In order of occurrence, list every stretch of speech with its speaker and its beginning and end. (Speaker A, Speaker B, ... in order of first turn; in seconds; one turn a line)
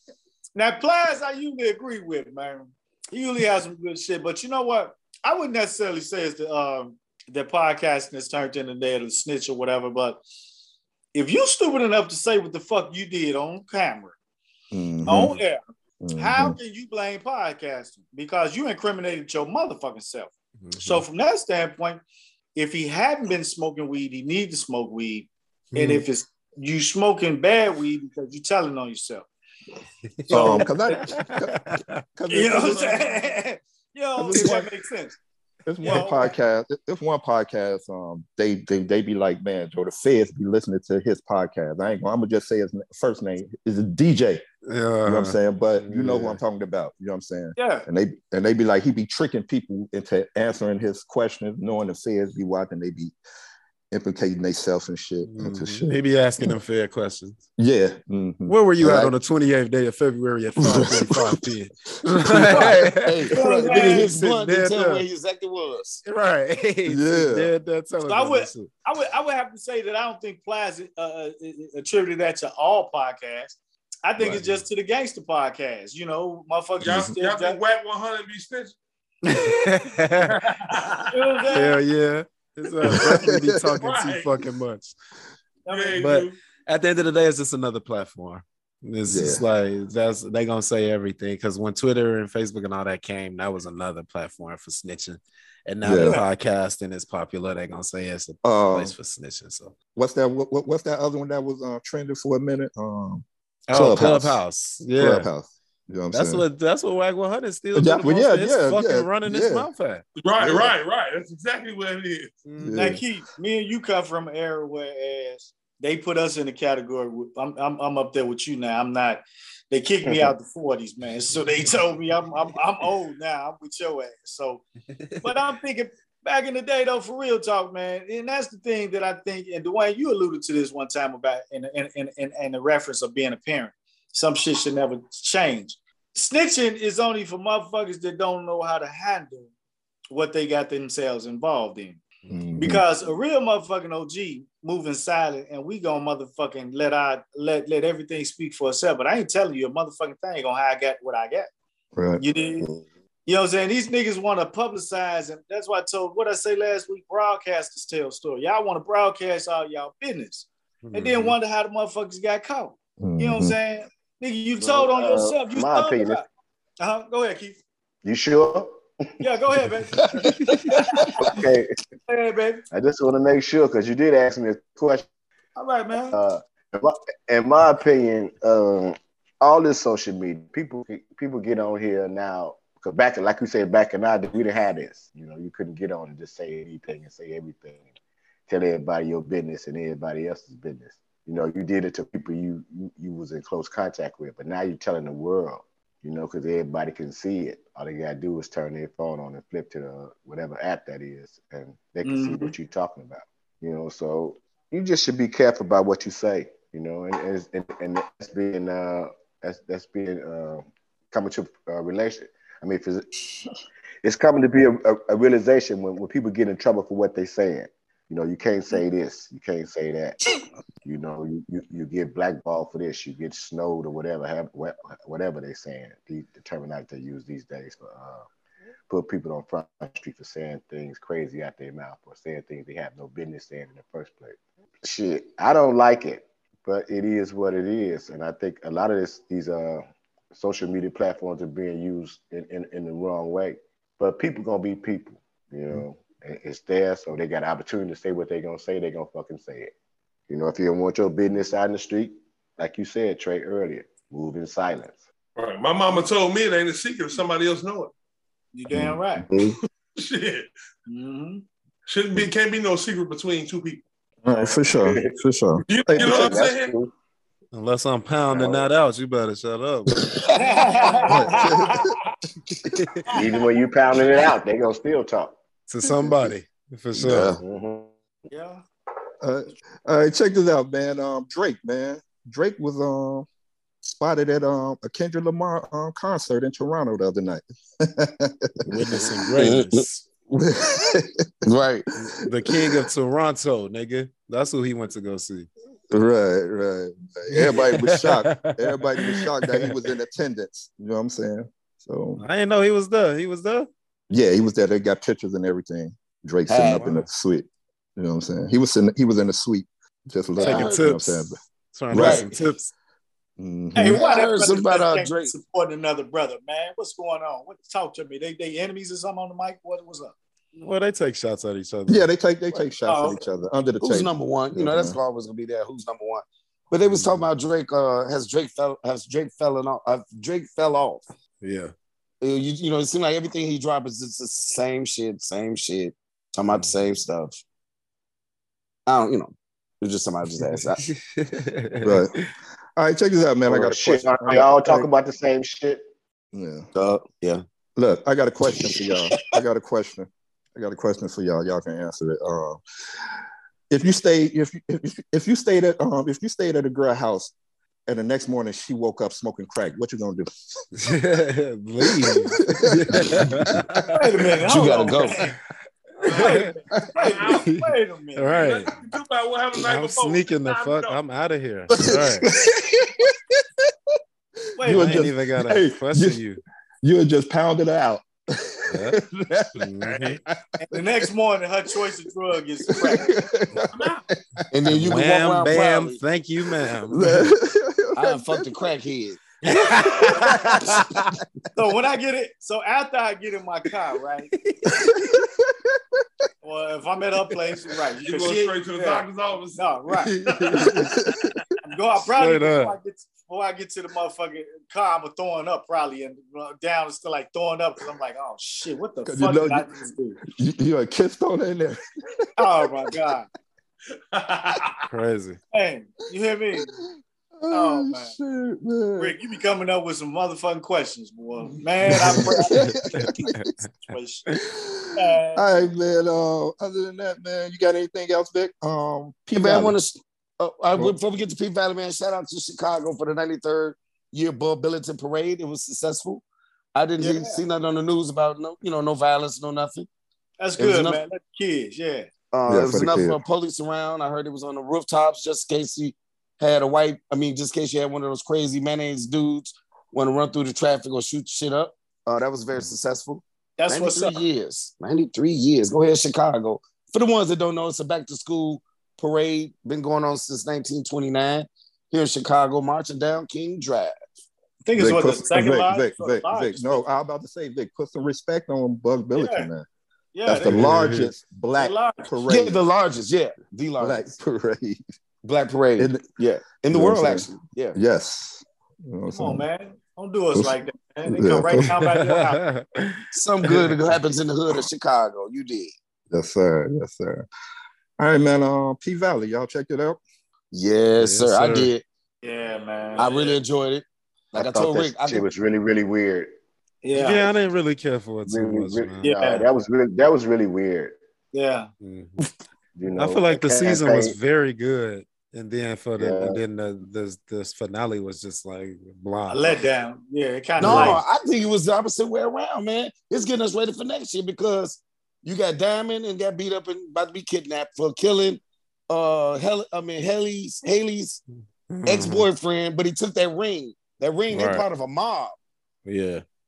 Speaker A: 0.5-10.2
Speaker A: 11.1-14.1
Speaker B: 14.7-15.3
Speaker A: 15.1-15.6
Speaker B: 16.0-16.6
Speaker A: 16.1-22.0
Speaker C: 20.6-21.0
Speaker A: 22.5-29.3
Speaker C: 25.7-26.0
Speaker C: 30.2-32.0
Speaker A: 30.3-30.7
Speaker B: 30.3-31.6
Speaker B: 32.1-33.1
Speaker A: 32.3-35.1
Speaker B: 34.2-34.7
Speaker B: 35.6-44.4
Speaker A: 35.8-36.3
Speaker C: 44.7-46.4
Speaker B: 45.0-53.1
Speaker A: 47.5-47.9
Speaker B: 53.9-56.5
Speaker C: 55.2-57.4
Speaker B: 57.6-59.1
Speaker C: 58.5-65.0
Speaker B: 60.6-61.4
Speaker B: 62.3-64.4
Speaker D: 62.5-66.0
Speaker A: 63.3-64.1
Speaker C: 66.0-68.7
Speaker B: 66.8-67.5
Speaker A: 68.0-77.6
Speaker B: 74.2-74.4
Speaker E: 76.8-78.7
Speaker C: 79.3-80.4
Speaker E: 80.2-81.5
Speaker A: 81.1-81.8
Speaker C: 81.5-84.9
Speaker E: 82.8-83.3
Speaker B: 82.8-83.8
Speaker E: 83.8-84.3
Speaker A: 85.7-86.0
Speaker E: 85.7-86.3
Speaker C: 85.9-99.8
Speaker B: 89.1-89.4
Speaker B: 95.8-96.2
Speaker A: 96.0-96.2
Speaker B: 98.4-98.9
Speaker B: 99.9-104.4
Speaker C: 103.7-105.3
Speaker B: 105.0-106.4
Speaker C: 106.1-110.0
Speaker B: 107.7-109.7
Speaker E: 110.2-112.3
Speaker B: 110.4-110.7
Speaker C: 112.5-112.9
Speaker B: 112.6-113.0
Speaker A: 112.7-124.6
Speaker A: 125.2-139.5
Speaker A: 140.1-142.0
Speaker B: 142.3-142.8
Speaker A: 142.6-151.5
Speaker B: 151.9-152.2
Speaker A: 152.2-152.7
Speaker A: 153.2-166.2
Speaker C: 160.8-161.3
Speaker B: 163.0-163.6
Speaker F: 164.6-166.2
Speaker A: 166.8-167.6
Speaker F: 168.0-168.7
Speaker A: 169.2-170.1
Speaker B: 170.0-171.1
Speaker A: 170.7-171.1
Speaker F: 171.2-171.7
Speaker A: 172.1-172.6
Speaker F: 172.7-175.1
Speaker A: 175.6-176.2
Speaker F: 176.1-187.8
Speaker F: 188.5-213.0
Speaker A: 202.0-202.5
Speaker F: 214.0-220.2
Speaker F: 220.8-228.2
Speaker F: 228.9-249.7
Speaker F: 250.3-255.0
Speaker E: 255.4-257.9
Speaker A: 258.5-259.2
Speaker B: 258.7-259.2
Speaker D: 259.3-259.6
Speaker E: 260.0-260.5
Speaker A: 260.9-261.4
Speaker E: 261.9-263.8
Speaker B: 264.2-266.4
Speaker F: 264.4-265.0
Speaker E: 265.7-266.8
Speaker F: 265.9-266.9
Speaker C: 267.5-270.2
Speaker F: 268.3-268.6
Speaker A: 270.3-271.9
Speaker B: 271.3-271.9
Speaker C: 272.7-273.0
Speaker F: 273.1-275.3
Speaker C: 275.7-277.3
Speaker B: 275.9-276.3
Speaker D: 276.9-277.4
Speaker F: 277.4-277.9
Speaker A: 278.3-278.6
Speaker B: 279.2-283.3
Speaker B: 283.8-289.5
Speaker C: 288.7-290.0
Speaker D: 289.4-289.8
Speaker B: 290.3-291.2
Speaker D: 291.4-291.9
Speaker C: 292.1-295.5
Speaker B: 292.5-292.9
Speaker B: 295.9-302.2
Speaker C: 297.3-299.7
Speaker C: 302.2-303.7
Speaker B: 304.1-311.4
Speaker D: 306.5-307.0
Speaker D: 310.4-310.9
Speaker C: 310.4-312.7
Speaker B: 311.9-312.3
Speaker D: 311.9-312.3
Speaker B: 313.4-314.0
Speaker A: 313.7-320.1
Speaker D: 313.8-315.3
Speaker C: 320.6-322.1
Speaker B: 321.9-325.0
Speaker A: 322.8-323.2
Speaker D: 323.8-331.0
Speaker C: 326.9-327.3
Speaker C: 331.4-331.7
Speaker D: 332.2-337.4
Speaker C: 336.5-336.7
Speaker D: 338.9-340.9
Speaker C: 340.8-342.3
Speaker B: 341.8-342.2
Speaker B: 342.8-344.9
Speaker F: 343.5-345.8
Speaker B: 346.3-346.7
Speaker D: 346.7-347.4
Speaker B: 347.8-352.6
Speaker D: 348.5-349.2
Speaker B: 353.7-357.3
Speaker B: 357.9-360.6
Speaker C: 360.8-364.0
Speaker B: 361.9-363.6
Speaker A: 363.9-365.3
Speaker D: 364.4-365.2
Speaker E: 366.0-367.5
Speaker C: 366.1-366.5
Speaker A: 366.1-368.5
Speaker C: 368.1-368.7
Speaker E: 368.4-371.0
Speaker C: 369.6-372.2
Speaker B: 371.8-373.1
Speaker A: 374.6-375.1
Speaker B: 374.6-376.2
Speaker C: 374.7-376.4
Speaker B: 376.8-381.1
Speaker C: 378.7-379.0
Speaker C: 379.6-380.2
Speaker A: 380.7-383.2
Speaker B: 382.7-384.4
Speaker E: 383.7-384.0
Speaker D: 384.5-386.0
Speaker C: 384.7-387.3
Speaker B: 386.9-388.7
Speaker D: 387.9-389.2
Speaker C: 389.5-391.1
Speaker E: 389.7-390.4
Speaker A: 391.5-394.3
Speaker C: 394.4-395.2
Speaker B: 395.0-395.4
Speaker A: 396.4-400.1
Speaker E: 398.0-400.9
Speaker B: 400.1-401.3
Speaker A: 401.6-410.2
Speaker C: 402.1-402.8
Speaker B: 409.0-409.7
Speaker B: 410.4-411.8
Speaker A: 412.4-413.3
Speaker E: 414.1-414.9
Speaker C: 414.9-415.4
Speaker A: 415.5-416.7
Speaker B: 417.4-419.1
Speaker A: 417.5-418.1
Speaker A: 419.0-424.2
Speaker B: 421.9-423.4
Speaker C: 422.7-423.6
Speaker B: 424.5-429.8
Speaker A: 424.9-425.6
Speaker D: 429.3-436.2
Speaker D: 436.8-439.9
Speaker A: 437.0-437.4
Speaker A: 440.4-442.1
Speaker D: 440.6-441.0
Speaker D: 442.3-464.1
Speaker B: 442.4-443.2
Speaker A: 453.6-454.2
Speaker A: 464.6-466.8
Speaker B: 464.7-469.6
Speaker A: 469.1-469.5
Speaker A: 470.1-470.7
Speaker B: 470.2-472.6
Speaker C: 470.4-471.1
Speaker A: 471.5-472.2
Speaker D: 472.2-474.1
Speaker B: 473.8-474.8
Speaker D: 475.2-477.8
Speaker B: 475.8-476.2
Speaker B: 476.7-479.4
Speaker A: 479.1-482.4
Speaker B: 480.3-481.7
Speaker C: 481.7-483.8
Speaker D: 483.1-485.7
Speaker B: 486.1-487.3
Speaker B: 488.0-490.0
Speaker D: 490.5-491.8
Speaker C: 491.0-491.7
Speaker A: 492.2-493.4
Speaker D: 492.9-495.2
Speaker F: 494.3-496.3
Speaker A: 496.8-497.3
Speaker C: 496.9-499.1
Speaker F: 498.3-501.0
Speaker A: 499.0-499.4
Speaker A: 501.3-501.7
Speaker C: 501.8-502.2
Speaker F: 502.8-504.1
Speaker C: 502.9-509.6
Speaker F: 506.0-506.4
Speaker A: 509.3-511.0
Speaker D: 510.6-521.2
Speaker C: 510.6-511.0
Speaker C: 521.7-522.3
Speaker D: 521.9-525.4
Speaker C: 524.3-524.6
Speaker C: 525.8-526.2